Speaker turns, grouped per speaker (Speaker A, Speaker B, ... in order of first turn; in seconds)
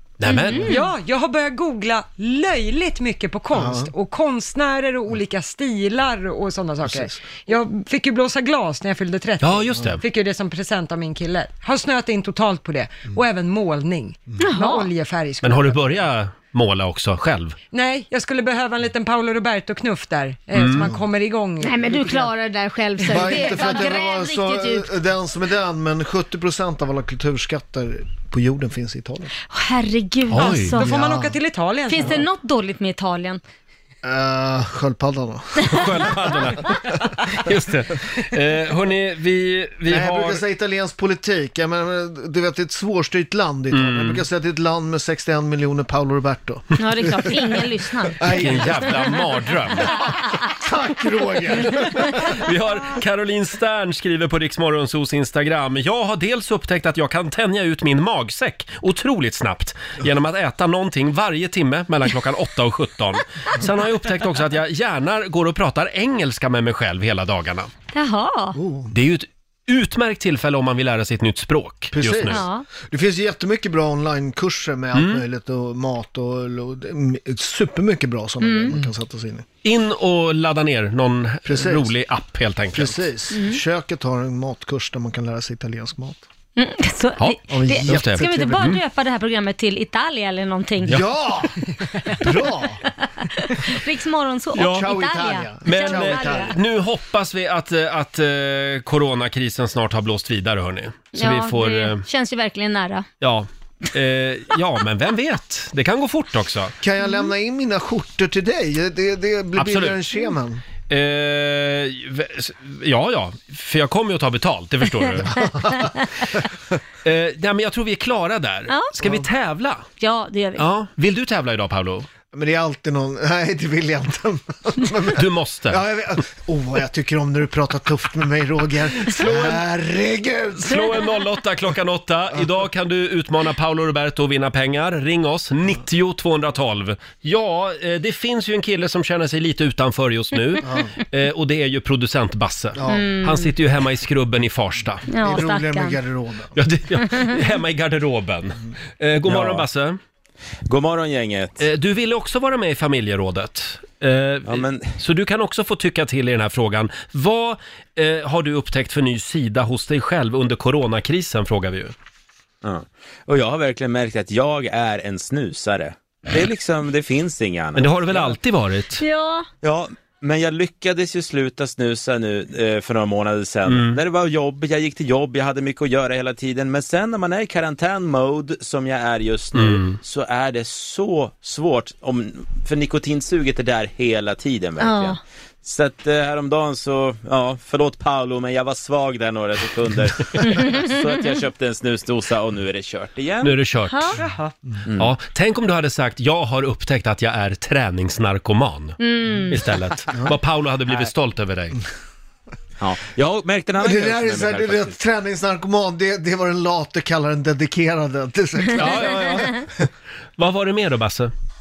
Speaker A: 0.2-0.7, 9.4-10.0, 15.4-17.6, 20.6-20.9, 30.3-30.8, 35.7-40.4, 43.7-44.2, 48.2-50.0, 51.7-67.7, 68.9-72.5, 74.9-75.2, 79.6-83.1, 87.2-88.8, 94.5-94.9, 95.7-102.0, 103.2-106.8, 109.6-110.0, 110.9-115.5, 117.0-119.9, 120.6-122.1, 125.1-125.8, 129.0-129.6, 130.6-145.1, 146.6-150.0, 151.6-161.9, 167.8-169.0, 173.7-174.0, 179.6-180.0, 193.4-194.2, 195.0-201.8, 208.7-209.7, 210.4-211.3
Speaker B: 0.3-0.9, 14.4-14.9, 21.6-24.9, 29.5-31.0, 31.9-33.4, 35.7-36.2, 46.8-48.9, 67.9-68.6, 72.2-72.7, 78.4-78.8, 83.3-83.6, 86.6-91.0, 92.2-96.5, 101.2-103.1, 118.7-118.9, 120.0-120.7, 142.9-143.5, 145.1-146.0, 169.0-169.5, 184.8-185.2, 193.9-194.2, 199.0-199.6
Speaker C: 0.6-15.9, 17.7-22.3, 23.0-23.7, 30.7-32.2, 194.2-194.5
Speaker D: 3.5-3.9, 6.8-7.3, 20.8-21.0, 23.1-29.3, 30.9-31.4, 34.0-36.3, 39.9-47.4, 48.1-49.0, 50.5-52.2, 68.5-68.9, 71.9-79.5, 81.5-81.9, 82.7-86.2, 87.5-88.7, 90.9-91.5, 92.1-92.8, 94.6-96.5, 106.8-110.6, 115.3-115.9, 119.0-119.3, 122.3-130.8, 140.6-140.9, 142.8-143.1, 145.2-146.6, 203.8-209.9
Speaker E: 149.3-149.7, 150.7-151.6, 154.5-154.9, 162.6-168.4, 169.6-193.6, 202.8-205.0